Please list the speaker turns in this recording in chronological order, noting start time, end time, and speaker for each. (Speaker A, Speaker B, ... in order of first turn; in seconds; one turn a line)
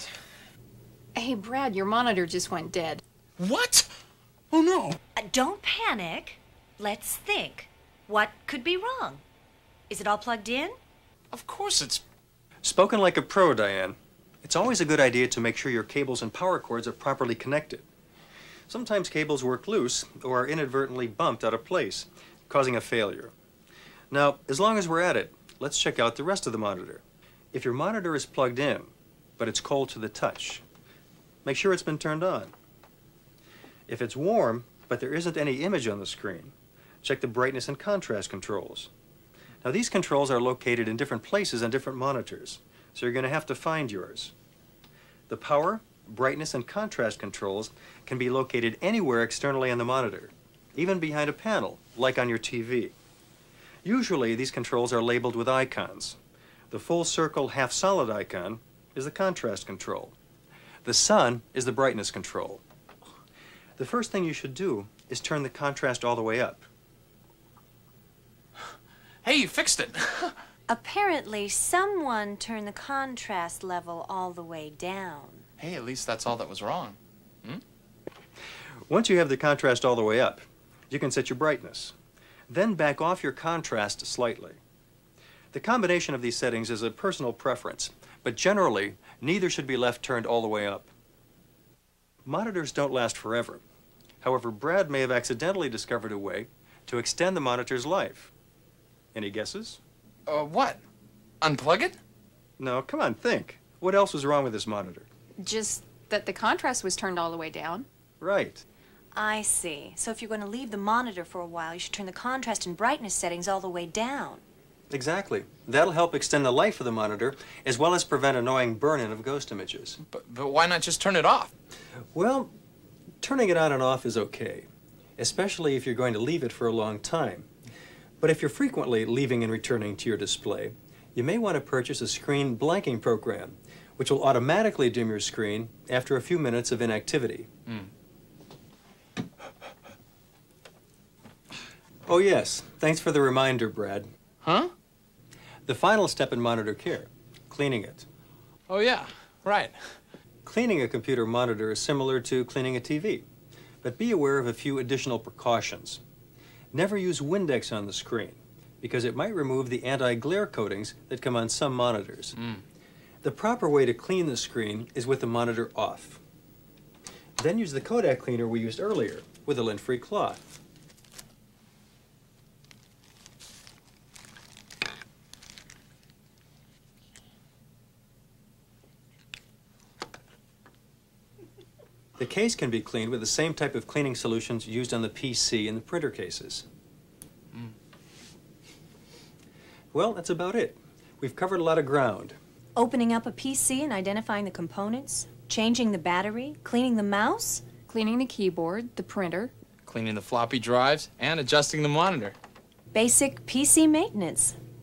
Speaker A: 1.1-3.0
Speaker B: 3.4-3.9
Speaker B: 4.5-5.0
Speaker C: 5.2-9.2
Speaker C: 9.9-10.8
Speaker B: 11.3-12.0
Speaker D: 12.6-17.9
Speaker D: 18.7-23.3
Speaker D: 24.1-30.6
Speaker D: 31.4-32.5
Speaker D: 33.9-38.9
Speaker D: 39.6-44.3
Speaker D: 45.3-52.9
Speaker D: 53.8-56.2
Speaker D: 56.7-60.1
Speaker D: 60.8-62.6
Speaker D: 63.8-66.6
Speaker B: 69.2-70.3
Speaker C: 70.7-75.4
Speaker B: 75.6-77.6
Speaker D: 78.9-81.9
Speaker D: 82.5-84.6
Speaker D: 85.5-90.9
Speaker D: 92.2-93.6
Speaker D: 94.2-98.3
Speaker D: 99.1-99.8
Speaker B: 100.3-100.8
Speaker B: 101.4-102.0
Speaker D: 102.6-105.1
Speaker A: 105.4-107.8
Speaker D: 108.2-108.6
Speaker C: 109.1-114.4
Speaker D: 114.9-120.0
Speaker B: 120.1-121.5
Speaker D: 122.1-122.5
Speaker D: 123.2-127.5
Speaker D: 128.2-137.5
Speaker D: 142.1-144.1
Speaker B: 144.4-144.7
Speaker D: 145.7-148.1
Speaker B: 148.7-150.0
Speaker D: 150.4-153.2
Speaker D: 153.8-156.0
Speaker D: 156.7-162.4
Speaker D: 163.2-166.2
Speaker D: 167.4-170.5
Speaker D: 182.2-186.7
Speaker D: 189.9-192.4
Speaker C: 192.8-197.6
Speaker A: 197.9-199.5
Speaker B: 199.8-202.3
Speaker C: 202.9-204.6